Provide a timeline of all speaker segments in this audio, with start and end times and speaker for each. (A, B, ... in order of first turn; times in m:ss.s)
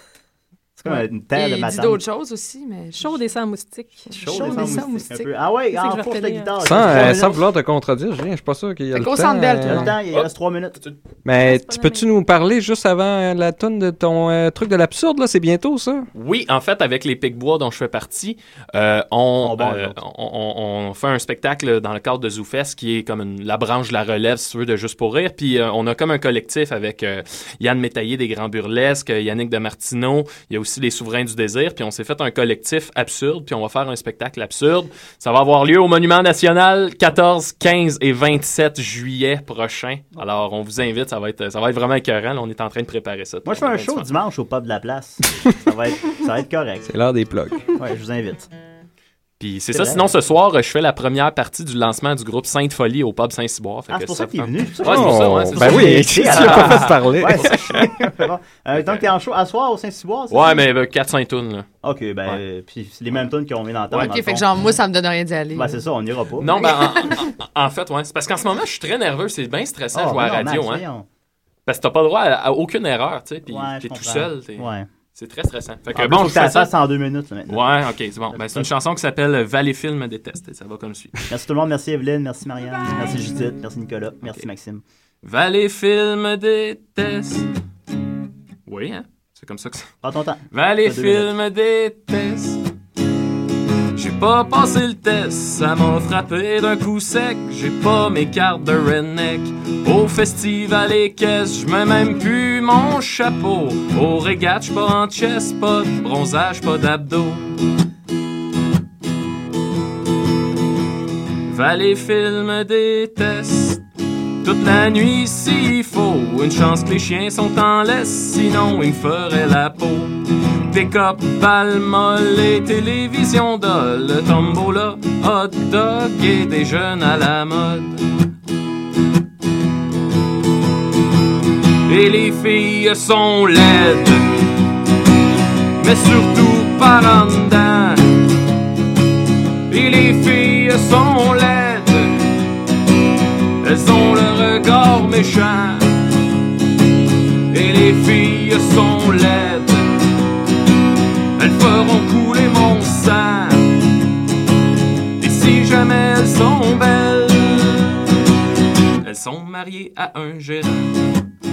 0:00.8-0:02.0 A
0:00.9-0:03.2 B
0:03.0-0:04.6 C
0:04.1-0:05.3 B
0:04.1-0:07.5 A
0:05.7-0:06.9 C
0:06.6-0:10.0 D
0:08.9-0:09.9 B
0:09.6-0:10.8 A
0:10.1-0:11.0 E
0:11.2-0:16.1 D
0:11.4-0:12.2 C
0:16.2-0:44.1 E
0:19.4-0:20.0 A
0:43.4-0:46.9 A
0:46.9-0:47.6 D
0:47.8-0:48.5 A
0:49.4-0:57.5 E
0:49.7-0:50.1 A
0:53.9-1:00.6 A
0:54.8-0:57.9 D
0:58.7-0:59.1 E
1:00.3-1:01.7 E
1:01.8-1:04.5 A
1:03.9-1:05.8 B
1:05.5-1:06.6 A
1:06.4-1:10.8 E
1:06.6-1:07.2 B
1:09.9-1:11.1 A
1:11.7-1:16.7 E
1:13.5-1:14.9 A
1:15.9-1:17.7 A
1:17.5-1:21.3 E
1:18.3-1:18.7 A
1:21.3-1:24.8 A
1:25.2-1:27.5 E
1:28.7-1:29.9 E
1:30.0-1:31.3 A
1:30.5-1:32.6 E
1:34.0-1:47.5 E
1:51.5-1:53.8 E
1:54.4-2:00.2 E
2:00.7-2:08.0 E
2:11.9-2:14.3 E
2:15.8-2:18.1 E
2:19.7-2:22.2 E
2:23.6-2:25.9 E
2:27.5-2:29.9 E
2:31.4-2:33.7 E
2:35.2-2:38.0 E
2:39.0-2:41.0 E